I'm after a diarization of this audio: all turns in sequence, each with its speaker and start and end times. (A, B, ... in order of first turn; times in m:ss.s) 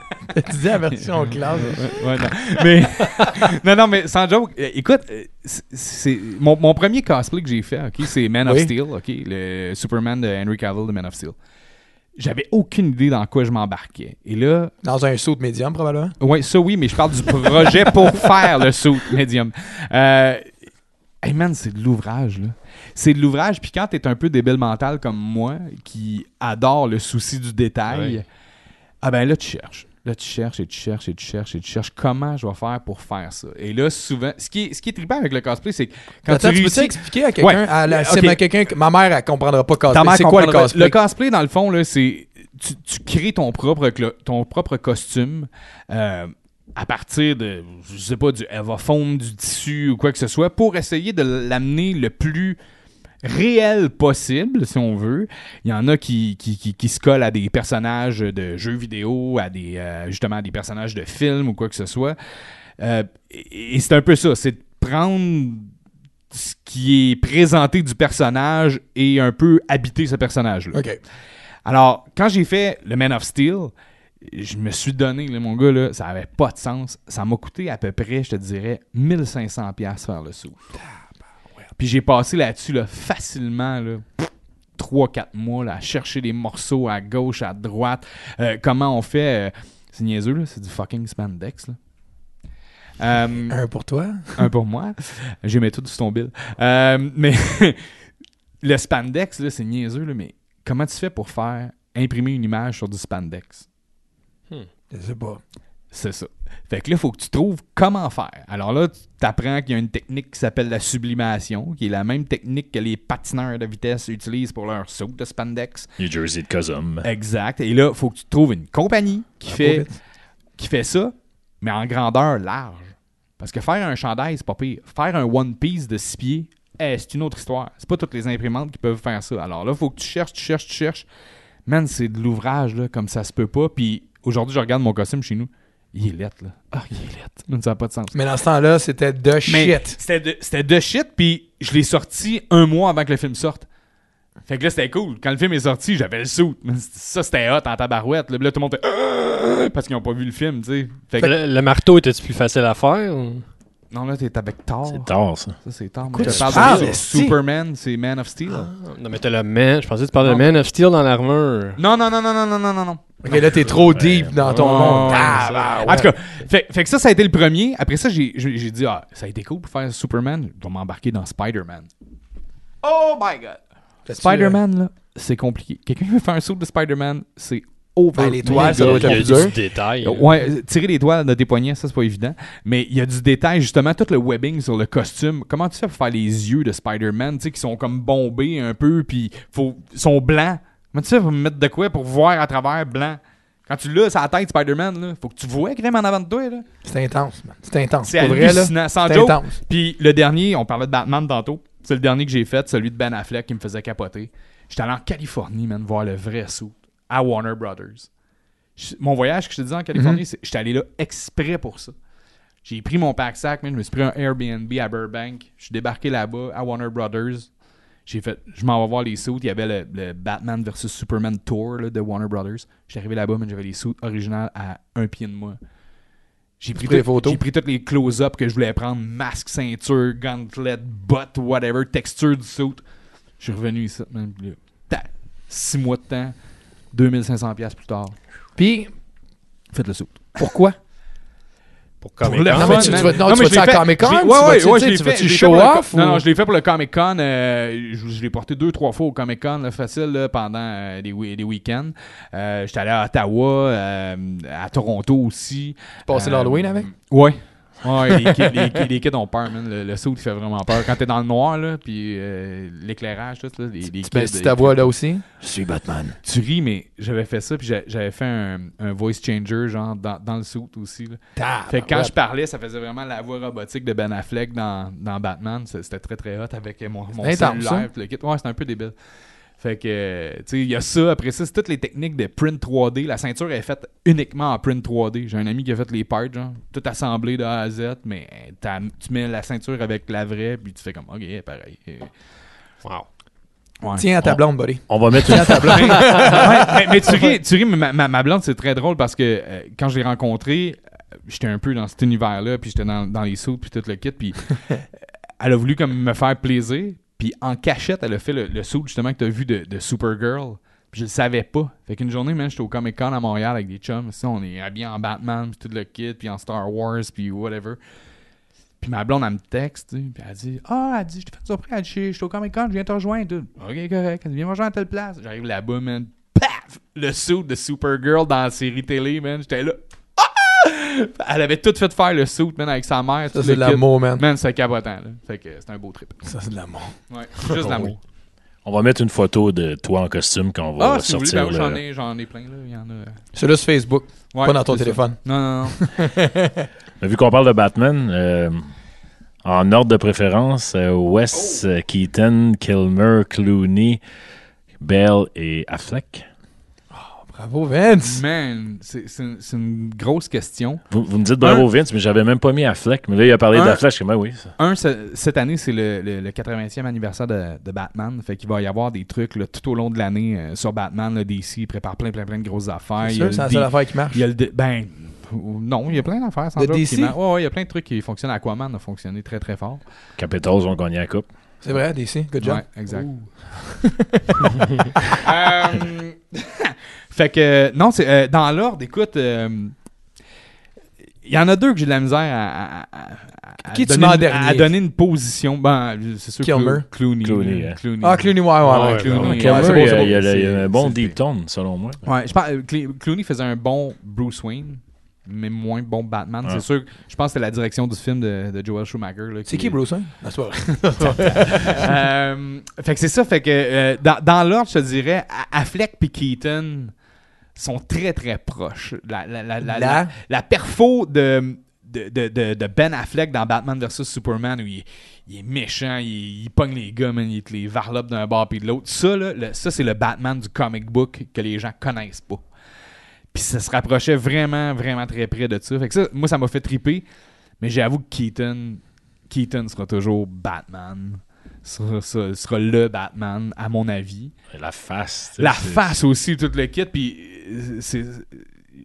0:00.3-0:02.3 A
0:01.2-0:11.4 B
0:03.0-0:03.4 A
0:08.4-0:08.7 A
0:12.2-0:14.7 B
0:14.8-0:16.1 A
0:16.2-0:20.5 B
0:21.2-0:28.3 B
0:27.9-0:28.2 C
0:29.0-0:38.4 B
0:36.3-0:41.0 A
0:39.9-0:52.6 B
0:53.2-1:02.2 B
1:02.8-1:05.7 B
1:06.3-1:10.8 B
1:10.7-1:11.0 A
1:11.6-1:20.6 B
1:21.8-1:31.8 B
1:33.0-1:33.6 B
1:33.5-1:34.5 A
1:34.4-1:37.8 B
1:38.6-1:43.7 B
1:44.9-1:45.4 A
1:45.9-1:55.9 B
1:56.0-1:57.1 D
1:57.0-1:59.9 B
1:59.5-1:59.9 A
2:00.6-2:11.1 B
2:11.7-2:18.2 B
2:18.1-2:20.0 A
2:19.5-2:23.7 B
2:24.5-2:31.3 B
2:31.2-2:33.4 C
2:33.9-2:35.1 B
2:34.9-2:35.6 D
2:35.6-2:38.7 B
2:36.1-2:37.4 A
2:36.2-2:36.9 C
2:38.5-2:41.8 C
2:40.2-2:40.5 B
2:41.8-2:43.2 B
2:43.2-2:46.1 A
2:43.9-2:44.4 D
2:44.4-2:45.5 C
2:44.5-2:51.9 B
2:52.8-2:53.6 B
2:54.1-2:54.6 A
2:54.1-3:16.6 B
2:58.1-2:59.6 A
2:58.5-3:00.2 C
3:16.8-3:19.6 A
3:18.0-3:28.1 B
3:28.8-3:31.9 B
3:30.0-3:30.2 A
3:32.6-3:37.5 B
3:38.1-3:45.6 B
3:46.6-3:52.8 B
3:46.8-3:47.4 A
3:53.4-3:56.4 B
3:56.9-3:58.2 B
3:58.6-3:58.9 A
3:59.7-4:00.5 B
4:00.4-4:00.8 A
4:02.0-4:03.2 C
4:02.2-4:24.9 B
4:02.4-4:06.2 A
4:16.1-4:16.9 A
4:24.0-4:26.2 A
4:26.2-4:38.9 B
4:31.4-4:32.1 A
4:37.2-4:37.9 A
4:39.6-4:52.1 B
4:53.8-4:54.1 B
4:54.0-4:57.3 A
4:54.9-4:55.9 D
4:55.4-5:04.8 B
5:05.4-5:17.8 B
5:18.8-5:36.2 B
5:33.3-5:34.2 A
5:36.2-5:37.6 A
5:37.1-5:38.0 B
5:37.6-5:37.9 C
5:38.6-5:41.8 D
5:40.8-5:43.2 B
5:43.3-5:46.7 A
5:44.3-5:46.0 B
5:47.0-5:48.7 D
5:49.4-5:54.0 D
5:54.8-5:56.2 D
5:56.9-5:58.2 A
5:58.0-6:00.8 B
6:00.9-6:04.5 D
6:03.5-6:03.8 B
6:04.6-6:19.8 B
6:13.0-6:14.2 A
6:16.6-6:17.2 A
6:20.2-6:21.3 D
6:21.6-6:22.6 A
6:22.4-6:23.3 B
6:23.5-6:25.0 A
6:25.2-6:29.8 B
6:31.2-6:41.2 B
6:33.7-6:34.7 A
6:36.4-6:36.8 A
6:37.2-6:37.8 D
6:38.0-6:40.3 A
6:38.6-6:39.6 C
6:39.2-6:42.0 D
6:42.0-6:49.8 B
6:49.5-6:51.9 A
6:51.0-6:56.9 B
6:57.6-7:12.4 B
6:59.6-7:00.1 A
7:13.3-7:17.1 B
7:17.6-7:24.3 B
7:24.5-7:26.0 D
7:25.4-7:28.5 B